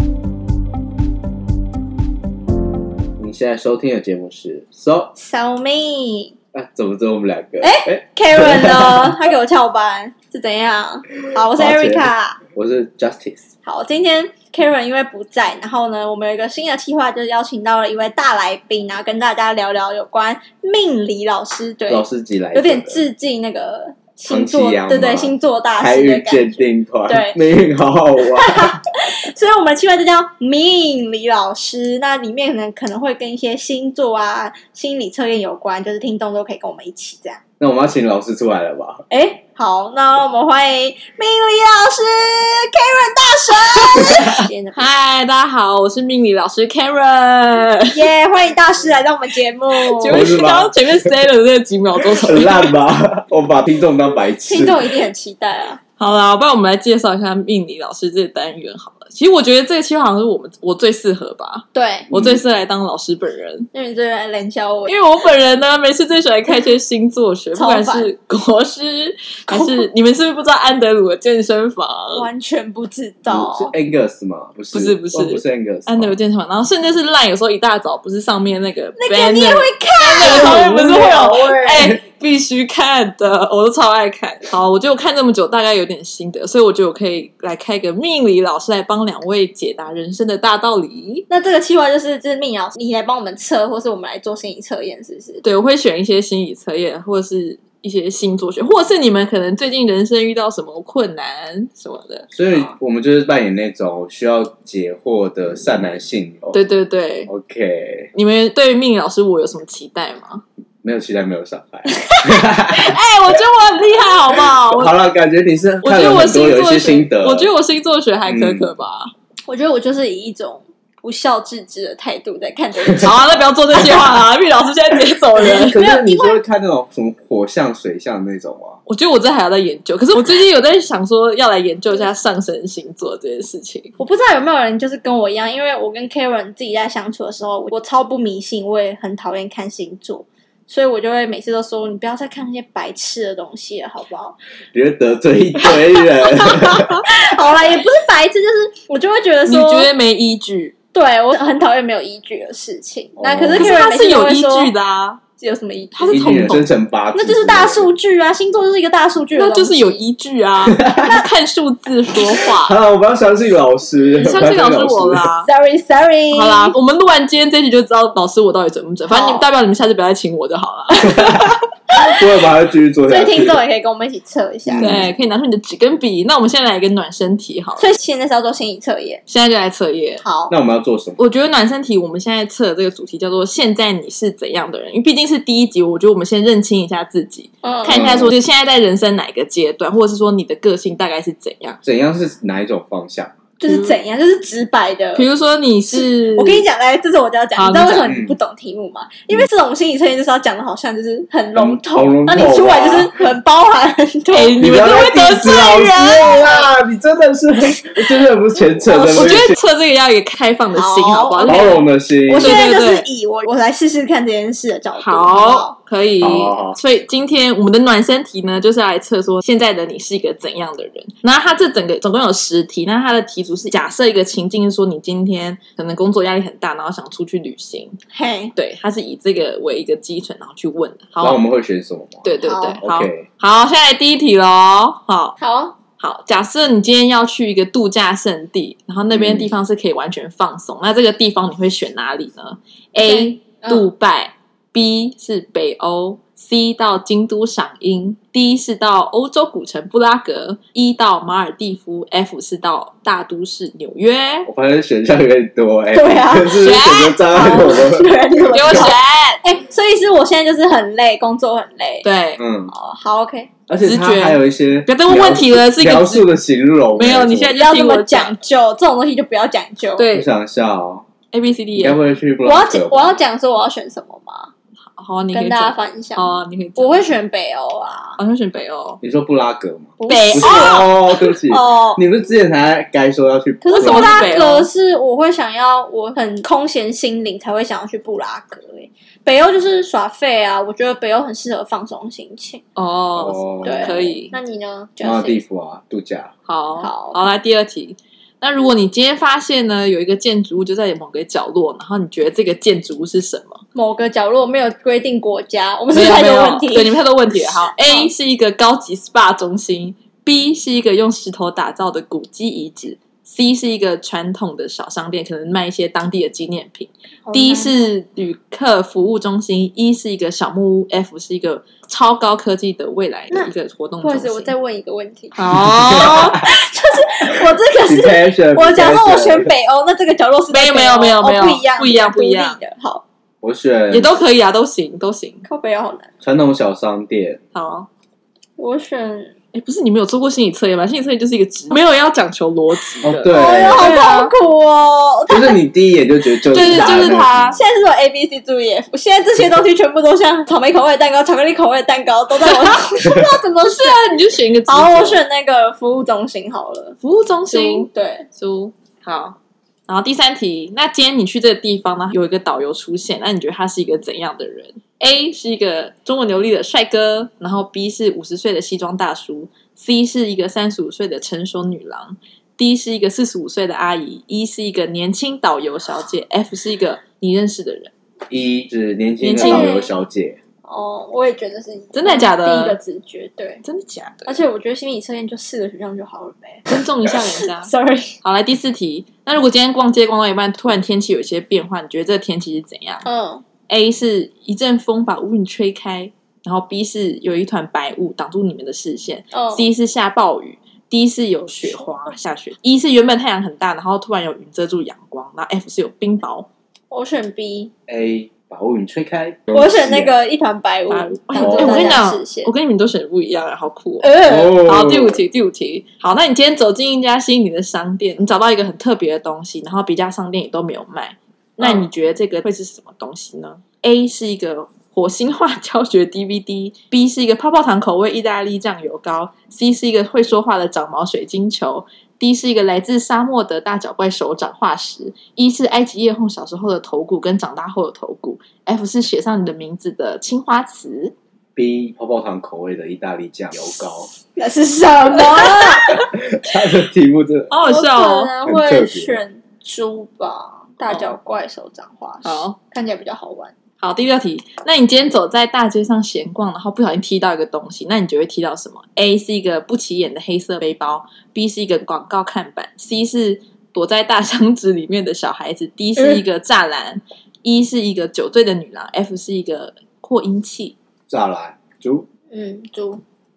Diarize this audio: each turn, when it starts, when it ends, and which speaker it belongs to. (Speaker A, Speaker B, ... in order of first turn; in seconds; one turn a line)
Speaker A: 3.2-5.1
Speaker B: 5.2-6.4
Speaker A: 6.5-9.2
Speaker B: 7.6-12.4
Speaker A: 11.5-13.5
Speaker B: 13.7-27.4
Speaker A: 21.9-23.0
Speaker A: 24.3-28.8
Speaker B: 28.3-37.4
Speaker A: 37.6-39.0
Speaker B: 39.1-44.9
Speaker C: 44.1-48.1
Speaker B: 47.9-50.4
Speaker C: 49.8-52.7
Speaker A: 50.0-50.7
Speaker A: 52.1-54.9
Speaker B: 54.5-55.8
Speaker C: 56.0-63.7
Speaker B: 61.7-62.1
Speaker A: 62.1-62.4
Speaker B: 63.7-65.0
Speaker C: 64.9-72.3
Speaker B: 67.5-68.1
Speaker B: 69.5-69.9
Speaker B: 72.1-73.7
Speaker A: 73.3-76.1
Speaker C: 74.7-91.2
Speaker B: 79.0-81.6
Speaker A: 80.2-82.0
Speaker B: 91.3-95.4
Speaker C: 95.4-102.3
Speaker A: 102.3-106.6
Speaker C: 106.5-107.3
Speaker A: 107.3-108.1
Speaker C: 108.1-110.4
Speaker A: 110.8-113.0
Speaker C: 112.1-115.0
Speaker A: 114.3-117.5
Speaker C: 115.8-119.1
Speaker A: 118.3-118.7
Speaker B: 119.5-123.4
Speaker C: 123.0-125.8
Speaker A: 125.4-128.8
Speaker B: 125.6-126.4
Speaker C: 128.9-133.9
Speaker B: 134.0-144.4
Speaker A: 144.7-147.1
Speaker B: 145.6-149.9
Speaker C: 149.5-150.8
Speaker B: 150.9-154.7
Speaker A: 153.2-153.7
Speaker C: 153.6-155.2
Speaker B: 155.4-156.3
Speaker C: 155.9-156.7
Speaker A: 156.1-157.9
Speaker B: 157.2-160.0
Speaker C: 159.3-162.8
Speaker A: 160.7-161.1
Speaker A: 162.6-165.3
Speaker C: 164.2-165.5
Speaker B: 165.5-166.7
Speaker C: 166.3-171.6
Speaker B: 169.1-169.5
Speaker A: 171.1-173.6
Speaker B: 173.1-175.0
Speaker A: 174.7-175.1
Speaker C: 174.8-177.9
Speaker B: 177.8-179.2
Speaker C: 179.3-180.2
Speaker B: 180.2-180.5
Speaker A: 180.5-181.2
Speaker C: 181.2-191.8
Speaker B: 187.6-188.0
Speaker A: 187.9-188.3
Speaker A: 191.8-193.4
Speaker B: 193.6-195.3
Speaker C: 193.7-193.9
Speaker C: 195.2-196.7
Speaker B: 195.9-204.6
Speaker C: 197.6-198.1
Speaker A: 198.1-198.3
Speaker A: 201.6-203.1
Speaker C: 204.3-206.4
Speaker A: 204.6-209.6
Speaker B: 205.7-206.7
Speaker B: 208.8-209.5
Speaker C: 209.2-213.1
Speaker B: 210.8-215.8
Speaker A: 211.5-212.6
Speaker C: 215.0-228.0
Speaker A: 216.2-216.8
Speaker B: 228.1-228.5
Speaker C: 228.6-231.4
Speaker A: 231.2-232.3
Speaker C: 232.2-235.4
Speaker B: 232.4-232.8
Speaker A: 232.8-233.3
Speaker B: 235.4-235.8
Speaker C: 236.0-254.5
Speaker A: 239.1-239.6
Speaker B: 243.0-243.8
Speaker A: 254.5-258.9
Speaker B: 255.9-262.1
Speaker C: 256.6-257.2
Speaker C: 258.5-259.4
Speaker C: 262.0-262.4
Speaker A: 262.4-262.7
Speaker B: 262.7-263.5
Speaker A: 263.7-267.6
Speaker C: 263.8-266.3
Speaker C: 266.9-268.4
Speaker B: 267.5-270.1
Speaker C: 270.0-270.3
Speaker A: 270.1-271.1
Speaker C: 271.3-272.0
Speaker A: 271.8-273.2
Speaker B: 272.4-274.5
Speaker C: 275.0-277.1
Speaker B: 275.3-278.2
Speaker C: 278.2-279.0
Speaker A: 279.0-284.3
Speaker B: 280.0-282.0
Speaker C: 280.1-280.9
Speaker B: 283.6-292.6
Speaker C: 283.8-284.7
Speaker C: 292.8-294.3
Speaker A: 293.2-294.0
Speaker B: 293.6-295.4
Speaker A: 295.0-296.3
Speaker C: 296.5-303.6
Speaker B: 296.8-297.2
Speaker B: 303.8-308.1
Speaker C: 305.9-324.5
Speaker B: 317.2-317.8
Speaker B: 324.0-325.4
Speaker C: 325.4-326.4
Speaker A: 325.7-326.5
Speaker B: 325.9-333.0
Speaker A: 327.3-329.5
Speaker C: 330.5-332.6
Speaker A: 333.4-334.1
Speaker C: 333.9-335.5
Speaker B: 335.5-336.1
Speaker A: 336.2-337.4
Speaker C: 337.5-337.9
Speaker B: 338.6-339.3
Speaker C: 339.5-344.3
Speaker A: 343.0-344.0
Speaker B: 343.2-345.6
Speaker A: 345.3-347.6
Speaker C: 346.5-347.6
Speaker B: 347.5-354.1
Speaker C: 352.5-352.8
Speaker C: 353.7-355.2
Speaker B: 354.7-357.0
Speaker C: 357.0-359.4
Speaker B: 357.5-358.3
Speaker C: 359.9-377.9
Speaker A: 378.3-380.4
Speaker C: 379.2-379.7
Speaker B: 379.4-379.9
Speaker B: 380.6-383.6
Speaker C: 381.9-382.8
Speaker C: 383.6-384.4
Speaker B: 384.2-388.2
Speaker C: 386.7-387.7
Speaker C: 388.2-393.1
Speaker B: 393.1-393.4
Speaker C: 393.7-406.5
Speaker B: 399.3-399.7
Speaker B: 406.9-407.7
Speaker A: 407.9-410.1
Speaker B: 409.5-412.5
Speaker C: 410.9-441.1
Speaker A: 411.4-412.0
Speaker B: 414.0-414.6
Speaker A: 414.2-415.2
Speaker B: 421.6-421.9
Speaker A: 441.6-444.1
Speaker B: 444.4-446.1
Speaker A: 445.5-447.5
Speaker C: 447.5-448.3
Speaker B: 447.6-453.5
Speaker A: 448.4-449.2
Speaker C: 452.2-452.6
Speaker C: 453.8-470.8
Speaker A: 471.1-472.1
Speaker B: 472.3-473.0